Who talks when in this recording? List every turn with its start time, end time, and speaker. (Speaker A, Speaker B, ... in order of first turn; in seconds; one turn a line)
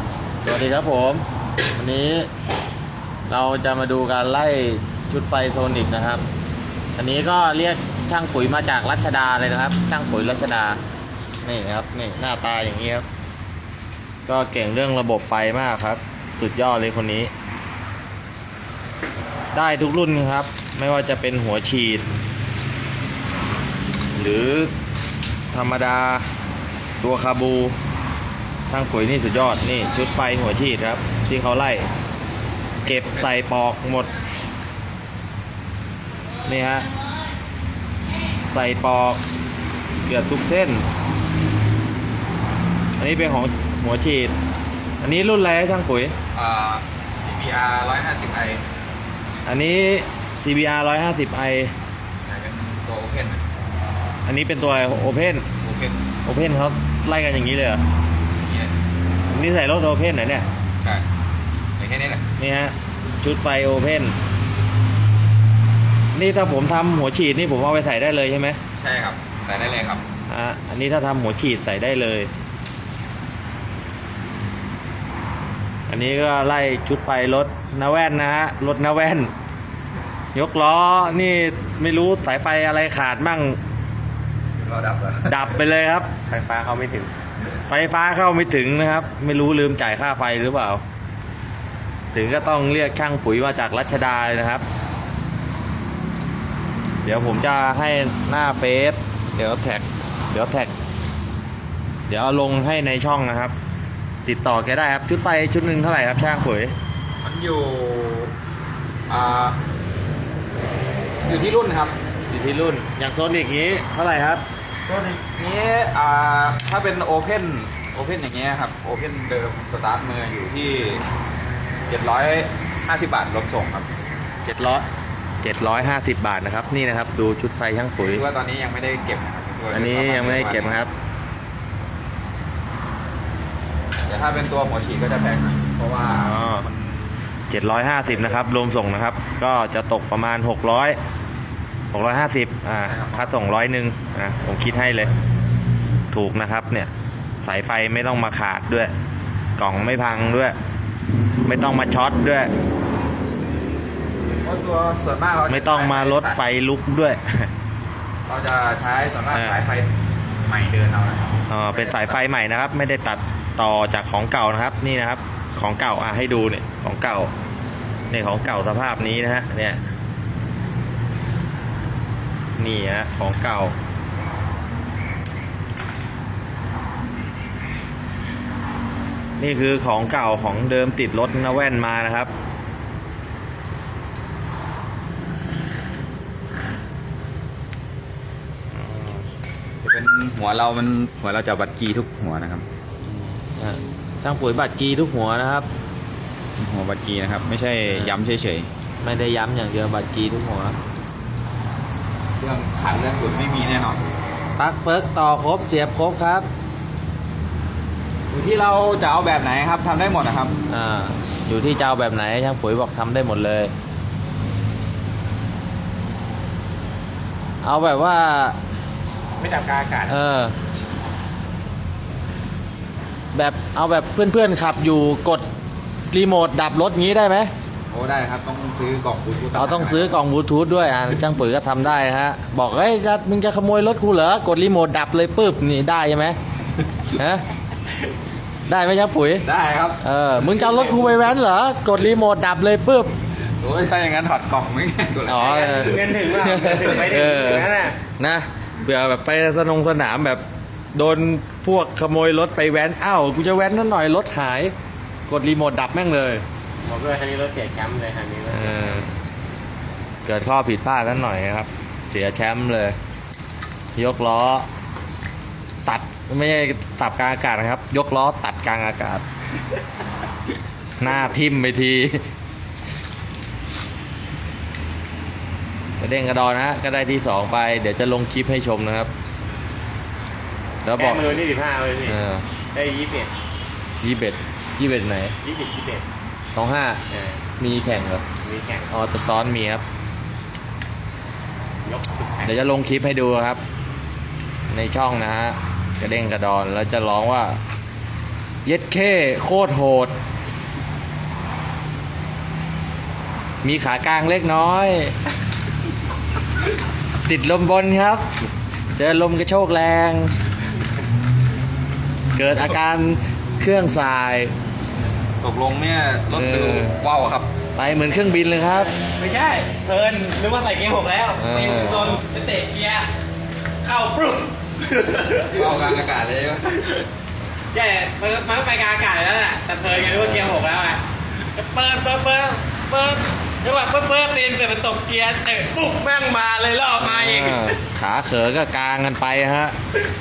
Speaker A: 0.4-2.3
Speaker A: 3.3-6.2
Speaker A: 7.0-10.8
Speaker A: 11.4-13.1
Speaker A: 14.3-17.3
Speaker A: 19.5-22.1
Speaker A: 24.2-24.7
Speaker A: 25.5-26.3
Speaker A: 27.0-27.8
Speaker A: 28.7-31.9
Speaker A: 32.8-34.2
Speaker A: 36.5-36.9
Speaker A: 38.5-39.2
Speaker A: 40.0-40.8
Speaker A: 43.0-44.4
Speaker A: 45.0-46.2
Speaker B: 46.3-48.6
Speaker A: 49.5-51.7
Speaker B: 52.2-53.4
Speaker A: 54.3-55.5
Speaker B: 55.6-56.0
Speaker A: 56.2-57.8
Speaker B: 58.4-58.7
Speaker A: 59.3-60.5
Speaker B: 60.8-61.1
Speaker B: 61.8-62.2
Speaker A: 62.4-64.1
Speaker A: 66.1-68.6
Speaker B: 68.8-70.0
Speaker A: 70.3-72.3
Speaker A: 75.9-79.3
Speaker A: 80.3-83.6
Speaker B: 84.6-85.6
Speaker A: 85.3-86.1
Speaker C: 86.3-87.1
Speaker A: 87.6-90.8
Speaker A: 92.1-94.6
Speaker A: 97.0-100.7
Speaker A: 102.1-103.5
Speaker A: 104.2-106.7
Speaker B: 107.2-108.3
Speaker B: 109.1-109.6
Speaker B: 111.2-112.0
Speaker A: 112.3-114.4
Speaker B: 114.9-121.0
Speaker B: 121.9-123.9
Speaker A: 124.5-124.9
Speaker A: 125.4-128.2
Speaker B: 128.0-130.8
Speaker A: 129.7-130.9
Speaker B: 134.1-137.1
Speaker A: 136.2-136.7
Speaker A: 137.5-141.0
Speaker B: 138.1-138.4
Speaker A: 141.9-145.1
Speaker B: 142.8-143.4
Speaker A: 146.1-146.9
Speaker A: 147.4-148.9
Speaker A: 149.6-150.6
Speaker A: 151.4-152.5
Speaker B: 154.4-156.4
Speaker A: 155.5-157.5
Speaker B: 158.3-162.2
Speaker A: 161.5-167.3
Speaker A: 168.1-169.8
Speaker A: 172.6-173.8
Speaker A: 179.4-182.3
Speaker A: 188.7-189.2
Speaker B: 189.8-192.7
Speaker A: 193.1-195.7
Speaker B: 196.6-198.7
Speaker A: 197.9-198.1
Speaker A: 199.0-200.8
Speaker B: 202.4-204.0
Speaker A: 204.6-206.5
Speaker B: 208.3-210.6
Speaker A: 210.7-213.7
Speaker A: 217.6-218.6
Speaker C: 219.4-220.1
Speaker A: 220.1-220.5
Speaker A: 223.3-225.5
Speaker A: 226.1-227.5
Speaker B: 227.9-230.2
Speaker A: 229.6-236.4
Speaker A: 237.1-237.4
Speaker A: 238.7-239.5
Speaker B: 239.4-240.0
Speaker A: 240.0-243.1
Speaker B: 243.6-246.1
Speaker A: 245.3-250.4
Speaker C: 245.3-248.0
Speaker A: 250.9-254.7
Speaker A: 255.3-256.4
Speaker C: 256.8-258.9
Speaker A: 258.5-259.1
Speaker A: 260.2-263.0
Speaker A: 264.0-264.7
Speaker A: 265.9-269.2
Speaker A: 271.0-272.2
Speaker A: 276.0-279.1
Speaker A: 280.8-281.4
Speaker C: 280.9-282.2
Speaker A: 282.1-282.4
Speaker C: 282.7-283.3
Speaker A: 284.0-285.4
Speaker C: 285.4-286.1
Speaker A: 286.6-287.0
Speaker C: 287.1-287.4
Speaker A: 287.6-288.2
Speaker C: 288.4-288.9
Speaker A: 288.9-289.8
Speaker C: 291.8-292.5
Speaker A: 292.4-293.6
Speaker A: 294.7-297.6
Speaker A: 298.6-300.1
Speaker A: 303.6-305.1
Speaker A: 307.2-308.2
Speaker A: 309.0-310.3
Speaker A: 312.4-314.5
Speaker B: 315.4-317.5
Speaker A: 316.3-317.0
Speaker A: 317.8-318.9
Speaker C: 319.1-323.1
Speaker A: 321.4-322.2
Speaker C: 323.8-325.8
Speaker B: 325.5-327.0
Speaker C: 327.7-337.8
Speaker A: 329.9-330.7
Speaker A: 337.0-339.8